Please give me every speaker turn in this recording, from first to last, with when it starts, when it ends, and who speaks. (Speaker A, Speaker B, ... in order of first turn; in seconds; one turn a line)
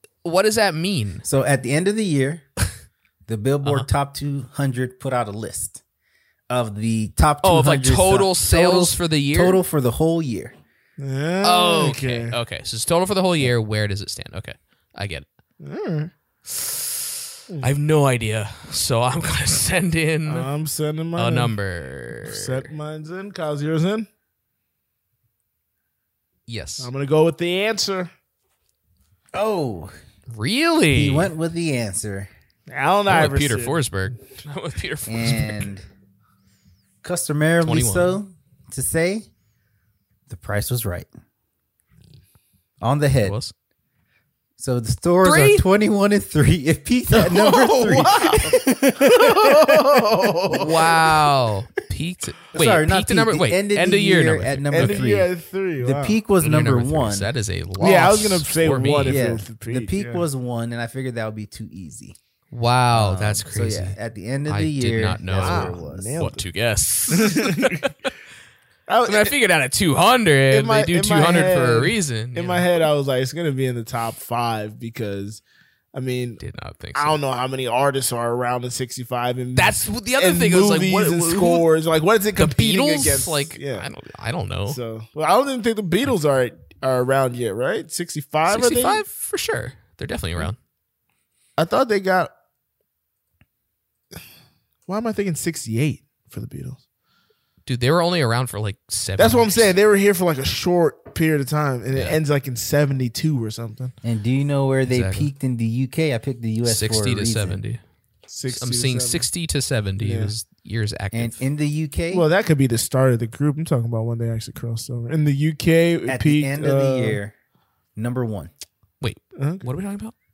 Speaker A: 0.2-1.2
Speaker B: 1.2-2.5
Speaker B: 3.3-5.8
Speaker B: 6.5-10.6
Speaker A: 7.4-9.6
Speaker C: 11.0-12.4
Speaker A: 11.4-15.3
Speaker C: 15.6-16.1
Speaker A: 16.5-16.8
Speaker A: 17.6-20.5
Speaker C: 20.3-21.5
Speaker A: 21.2-22.7
Speaker C: 22.2-24.1
Speaker A: 26.5-26.9
Speaker C: 26.8-28.1
Speaker B: 29.3-29.9
Speaker A: 30.3-31.3
Speaker B: 30.9-32.3
Speaker C: 32.7-33.9
Speaker A: 33.1-35.7
Speaker B: 35.1-35.9
Speaker B: 37.0-39.3
Speaker A: 37.6-38.2
Speaker B: 40.3-41.1
Speaker B: 42.8-43.4
Speaker A: 43.2-43.5
Speaker B: 44.6-50.5
Speaker A: 45.2-45.6
Speaker C: 47.1-50.9
Speaker A: 50.5-55.0
Speaker B: 52.5-57.3
Speaker C: 54.7-56.2
Speaker A: 56.4-59.2
Speaker C: 57.8-60.2
Speaker B: 59.0-62.2
Speaker A: 62.5-64.0
Speaker B: 62.9-66.2
Speaker A: 64.5-68.1
Speaker C: 65.4-66.4
Speaker C: 67.1-67.9
Speaker C: 68.9-69.3
Speaker A: 69.1-72.7
Speaker C: 70.5-75.4
Speaker C: 75.9-76.4
Speaker A: 76.4-77.2
Speaker C: 77.0-83.9
Speaker A: 79.6-81.7
Speaker A: 82.4-84.8
Speaker C: 84.7-89.0
Speaker A: 88.5-90.6
Speaker C: 91.6-92.3
Speaker C: 94.9-96.8
Speaker A: 97.7-99.8
Speaker C: 99.2-103.9
Speaker B: 104.0-107.6
Speaker A: 104.9-105.3
Speaker A: 106.7-107.8
Speaker C: 108.3-109.3
Speaker A: 108.5-111.4
Speaker C: 110.0-110.3
Speaker B: 111.1-112.3
Speaker C: 112.1-117.2
Speaker B: 116.1-117.3
Speaker B: 118.0-118.5
Speaker A: 119.0-120.1
Speaker C: 119.4-119.7